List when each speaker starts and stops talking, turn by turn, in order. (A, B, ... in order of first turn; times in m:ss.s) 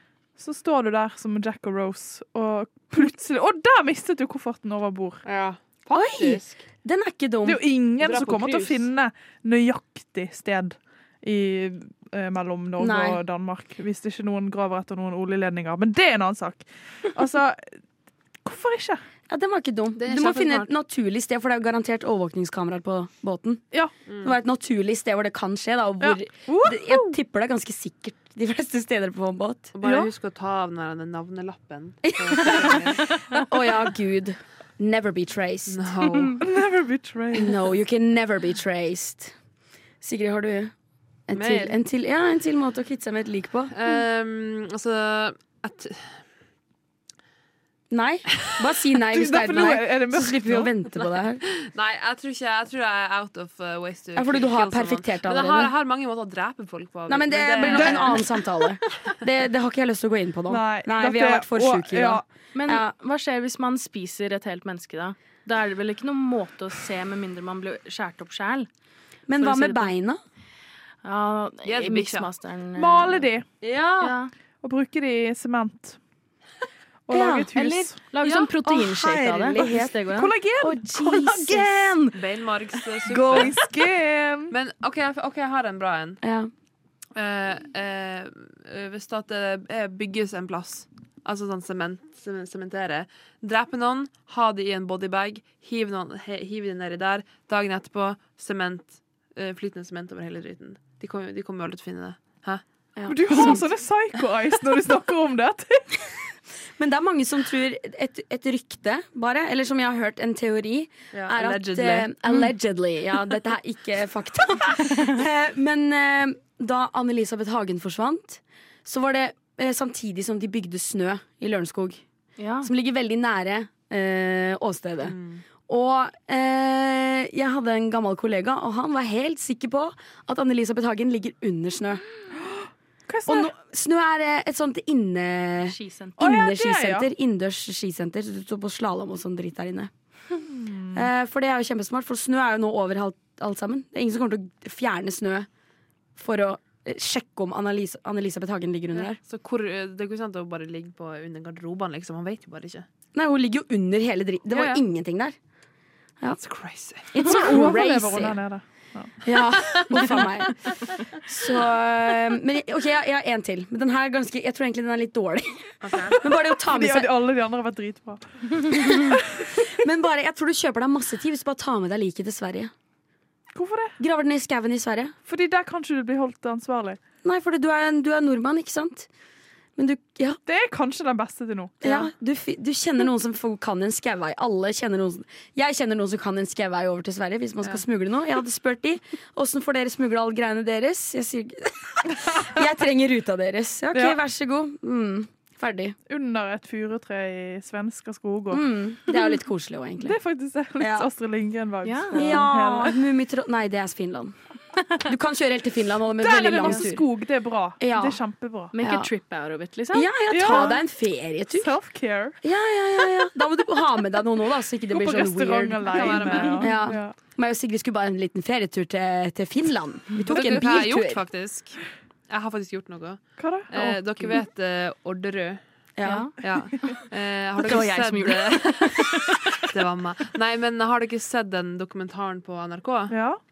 0:00.4-0:05.2 A
0:05.2-0:06.6 B
0:05.9-0:07.7 C
0:07.4-0:17.7 A
0:08.0-0:08.9 B
0:12.8-0:13.2 C
0:18.4-0:19.0 A
0:19.3-0:29.7 C
0:20.0-0:20.7 B
0:24.1-0:24.3 B
0:26.0-0:27.1 A
0:29.7-0:33.1 B
0:29.8-0:30.1 A
0:32.0-0:35.9 C
0:35.7-0:36.5 B
0:36.4-0:37.6 A
0:37.3-0:39.3 C
0:40.0-0:40.7 C
0:41.3-0:43.8 C
0:41.3-0:41.8 B
0:43.7-0:46.2 B
0:47.9-0:51.4 C
0:49.1-0:50.7 A
0:50.9-0:58.4 B
0:54.2-0:55.7 C
0:57.1-1:02.9 C
0:57.6-0:58.4 A
1:00.5-1:02.2 A
1:02.5-1:08.7 D
1:09.3-1:10.2 C
1:09.4-1:09.9 D
1:11.0-1:13.3 D
1:11.6-1:12.3 B
1:12.7-1:13.5 A
1:13.6-1:14.1 B
1:14.0-1:14.3 D
1:14.6-1:16.0 A
1:17.0-1:18.0 A
1:17.1-1:17.5 C
1:17.5-1:20.3 D
1:18.6-1:19.9 C
1:20.1-1:22.0 A
1:20.6-1:22.2 C
1:22.1-1:23.6 B
1:23.0-1:24.5 A
1:24.5-1:26.2 B
1:26.2-1:26.5 C
1:27.2-1:42.6 B
1:42.9-1:43.7 C
1:43.1-1:46.0 A
1:46.8-2:02.0 C
1:51.1-1:52.1 B
2:02.4-2:02.7 D
2:02.6-2:12.0 C
2:05.0-2:05.4 B
2:12.4-2:13.5 A
2:13.3-2:19.9 C
2:15.6-2:16.2 D
2:16.2-2:17.1 A
2:20.5-2:21.1 A
2:20.9-2:25.5 C
2:26.2-2:29.2 C
2:28.9-2:32.8 B
2:33.1-2:35.3 C
2:34.5-2:34.8 B
2:36.3-2:37.1 B
2:37.1-2:38.4 C
2:37.2-2:39.2 A
2:39.2-2:40.7 C
2:39.9-2:40.3 A
2:41.3-2:47.1 C
2:45.8-2:46.2 B
2:46.6-2:49.7 A
2:48.7-2:52.7 C
2:53.5-2:54.0 A
2:54.0-2:55.1 C
2:55.3-2:57.0 A
2:57.2-2:59.1 C
2:59.8-3:00.4 C
3:00.4-3:02.0 A
3:01.8-3:16.0 C
3:16.1-3:19.3 A
3:18.5-3:20.2 C
3:20.0-3:23.0 A
3:20.8-3:21.1 C
3:21.8-3:22.4 D
3:22.1-3:24.4 C
3:24.9-3:27.0 C
3:26.2-3:28.7 A
3:26.6-3:26.8 D
3:27.8-3:28.2 C
3:28.7-3:30.5 D
3:28.8-3:29.1 C
3:29.9-3:31.7 C
3:30.3-3:30.8 A
3:31.5-3:32.4 A
3:32.4-3:41.2 C
3:34.9-3:37.2 A
3:35.9-3:36.7 B
3:40.2-3:45.6 B
3:43.4-3:44.4 A
3:46.0-3:46.3 C
3:46.0-3:46.3 D
3:46.4-3:53.2 B
3:47.6-3:49.4 D
3:53.1-3:53.4 A